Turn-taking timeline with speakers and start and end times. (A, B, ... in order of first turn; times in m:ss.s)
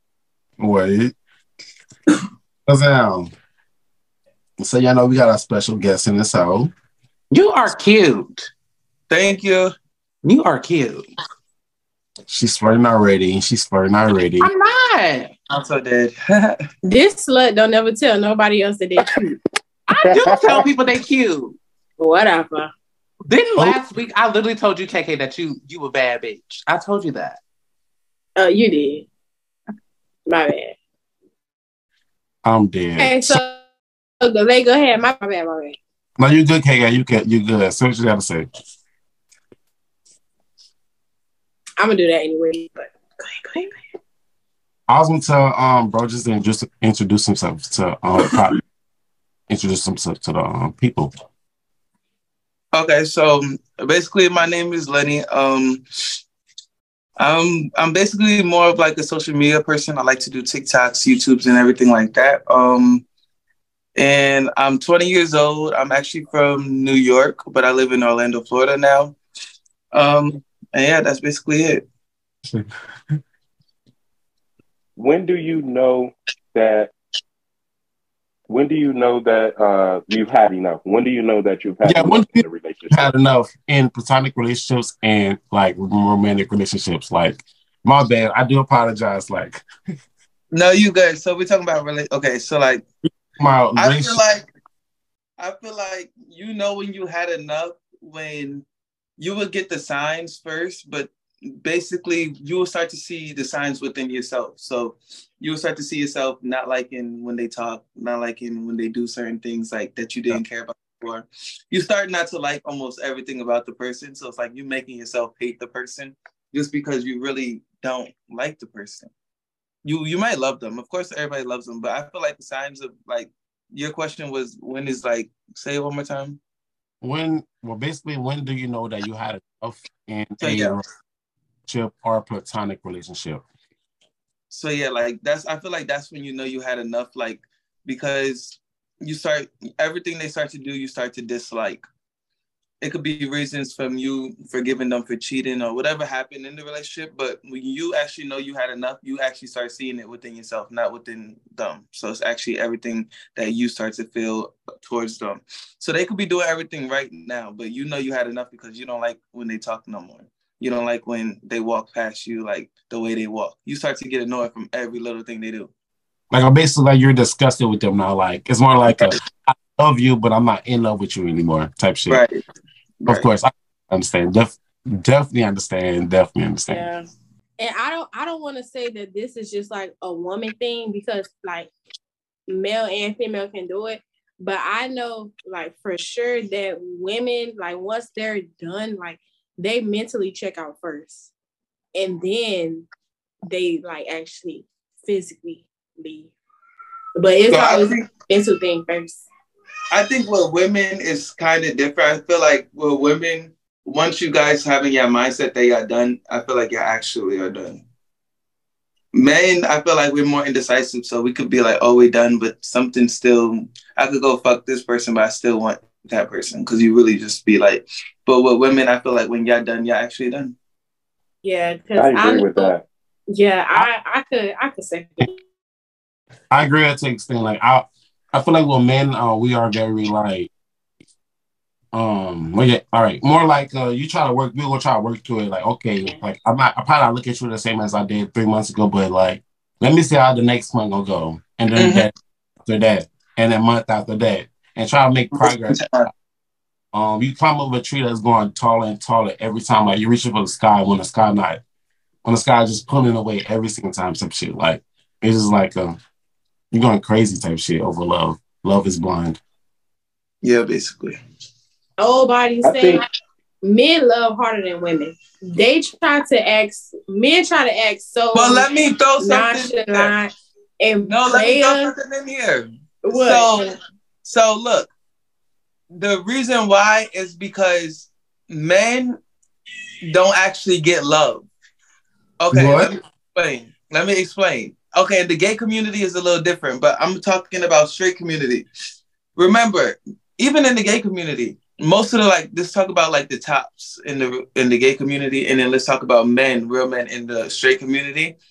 0:00.6-0:01.2 A
0:02.7-0:03.3 A
0:04.6-0:06.7 A
0:07.3-0:08.5 B
0:09.1-0:09.7 C
0:10.2-0:11.0 B
0:12.3-0:14.5 A
0:14.4-0:15.3 B
0:15.5-0:16.6 C
0:16.8-0:19.1 D
0:19.9-0:21.6 B
0:20.2-0:20.7 E
0:22.0-0:22.7 D
0:23.3-0:27.4 B
0:28.4-0:29.1 D
0:30.3-0:30.8 D
0:32.4-0:33.4 A
0:33.0-0:33.6 D
0:34.2-0:35.8 D
0:36.2-0:38.5 A
0:41.8-0:43.8 D
0:44.9-0:48.6 A
0:49.5-0:51.1 A
0:52.7-0:55.8 C
0:57.2-1:03.0 C
1:04.0-1:09.2 C
1:09.9-1:11.8 C
1:15.0-1:16.9 E
1:18.5-1:23.0 E
1:21.8-1:29.6 A
1:30.5-1:32.8 C
1:33.4-1:34.2 A
1:33.8-1:34.5 C
1:35.4-1:38.6 C
1:39.2-1:59.1 C
1:59.8-2:06.4 C
2:07.0-2:10.8 A
2:10.4-2:10.8 C
2:11.7-2:13.4 A
2:14.5-2:21.8 C
2:22.8-2:45.7 C
2:46.3-2:52.2 A
2:52.1-2:52.4 C
2:53.0-2:53.3 C
2:53.1-2:56.9 A
2:56.7-2:57.0 D
2:57.6-3:01.7 D
3:02.5-3:11.3 D
3:12.0-3:12.9 D
3:13.5-3:16.3 D
3:17.2-3:19.2 D
3:17.5-3:18.1 C
3:19.9-3:27.8 C
3:29.1-3:40.6 C
3:41.4-3:42.7 D
3:42.0-3:42.8 E
3:43.3-3:45.4 D
3:46.5-3:50.5 A
3:51.9-4:02.1 A
4:01.8-4:02.1 C
4:02.6-4:05.9 A
4:05.3-4:06.1 C
4:06.9-4:11.6 A
4:12.2-4:16.0 A
4:16.7-4:19.4 A
4:20.4-4:21.2 C
4:22.0-4:23.0 D
4:22.6-4:23.0 E
4:23.6-4:28.7 D
4:28.3-4:30.1 C
4:29.2-4:31.9 D
4:31.1-4:34.9 C
4:33.0-4:33.6 D
4:35.9-4:39.2 C
4:40.0-4:41.5 C
4:42.4-4:48.7 C
4:42.5-4:42.9 A
4:49.4-4:58.4 C